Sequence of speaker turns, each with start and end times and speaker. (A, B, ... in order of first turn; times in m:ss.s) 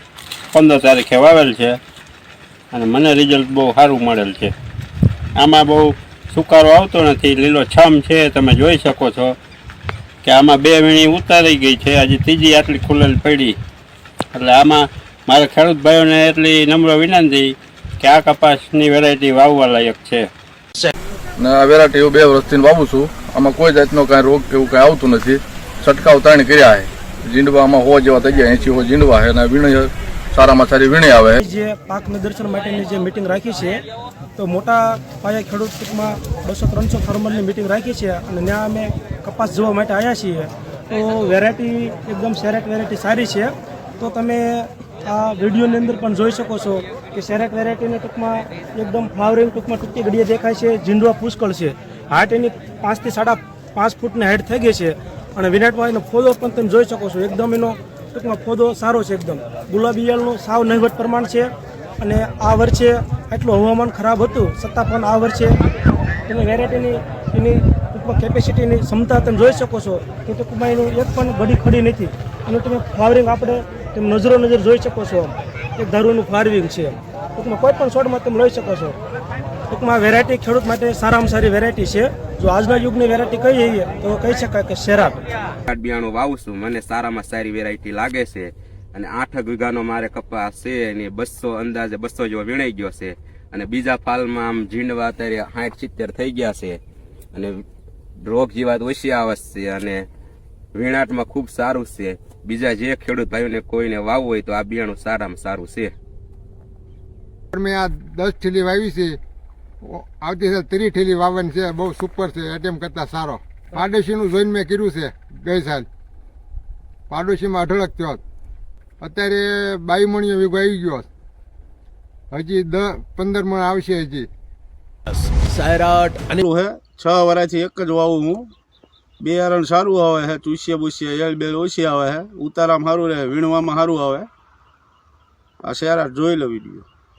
0:00.5-0:01.8 A
0:02.7-0:04.5 A
0:05.4-0:09.4 A
0:10.2-0:13.6 A
0:14.4-0:20.3 A
0:21.4-0:31.4 B
0:31.4-0:33.8 C
0:34.4-1:05.5 C
1:06.2-1:19.0 C
1:19.7-1:25.2 C
1:25.7-1:36.8 D
1:37.3-1:37.6 D
1:38.2-1:40.0 D
1:40.7-1:45.9 D
1:47.5-1:49.2 E
1:49.8-1:55.9 E
1:57.1-1:58.2 E
1:59.0-2:01.1 E
2:02.3-2:04.3 E
2:06.4-2:08.5 F
2:09.2-2:14.3 F
2:15.6-2:16.8 F